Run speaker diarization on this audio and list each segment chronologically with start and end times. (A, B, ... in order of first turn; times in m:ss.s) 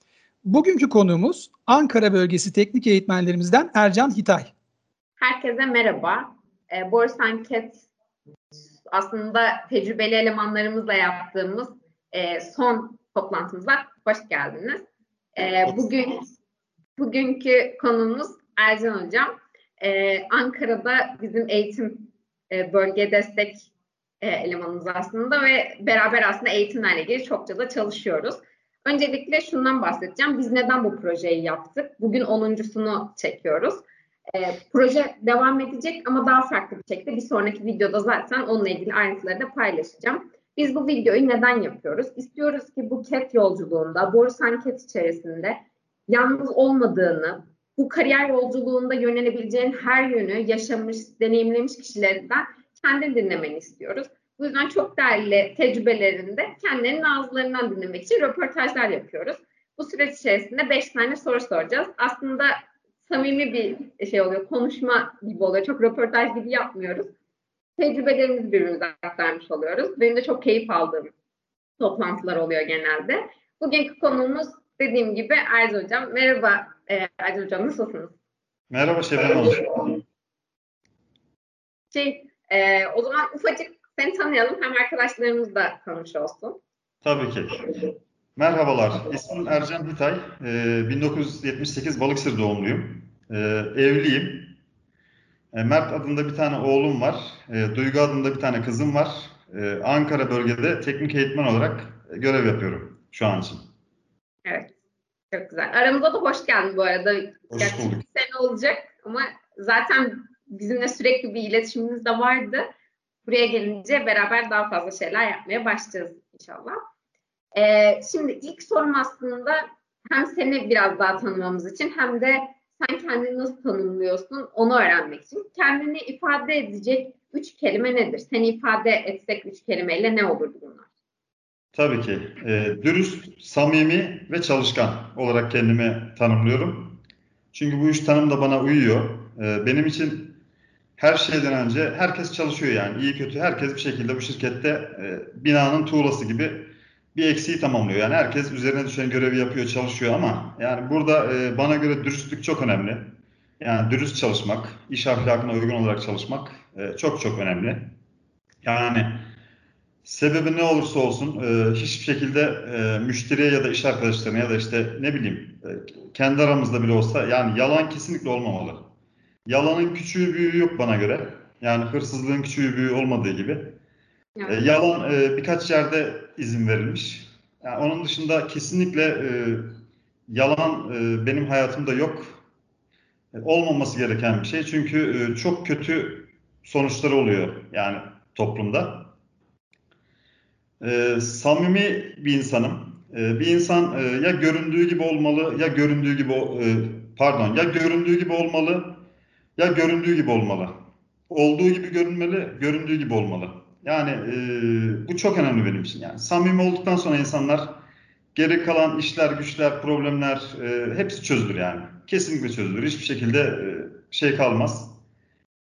0:00.4-0:04.5 A
0:05.2-0:07.8 B
0:08.8-0:14.8 B
0:15.4-0:16.3 B
0:17.0-0:33.8 B
0:34.3-1:07.1 B
1:07.8-1:11.1 B
1:11.8-1:18.2 B
1:18.7-1:19.9 C
1:21.9-1:26.6 B
1:27.0-1:27.8 C
1:28.4-1:34.5 C
1:35.5-1:43.6 C
1:44.4-1:44.7 B
1:45.3-1:52.6 B
1:47.5-1:48.0 C
1:53.2-1:56.7 B
1:57.5-2:10.9 B
2:11.7-2:17.0 C
2:17.5-2:20.4 C
2:21.0-2:33.1 C
2:33.6-2:37.8 C
2:38.6-2:39.3 C
2:40.0-2:48.8 C
2:49.5-2:53.7 C
2:54.4-2:54.7 B
2:54.5-2:59.7 C
3:00.3-3:02.4 C
3:03.4-3:09.1 C
3:10.8-3:19.0 C
3:19.6-3:20.7 C
3:21.3-3:27.8 C
3:28.3-3:35.0 C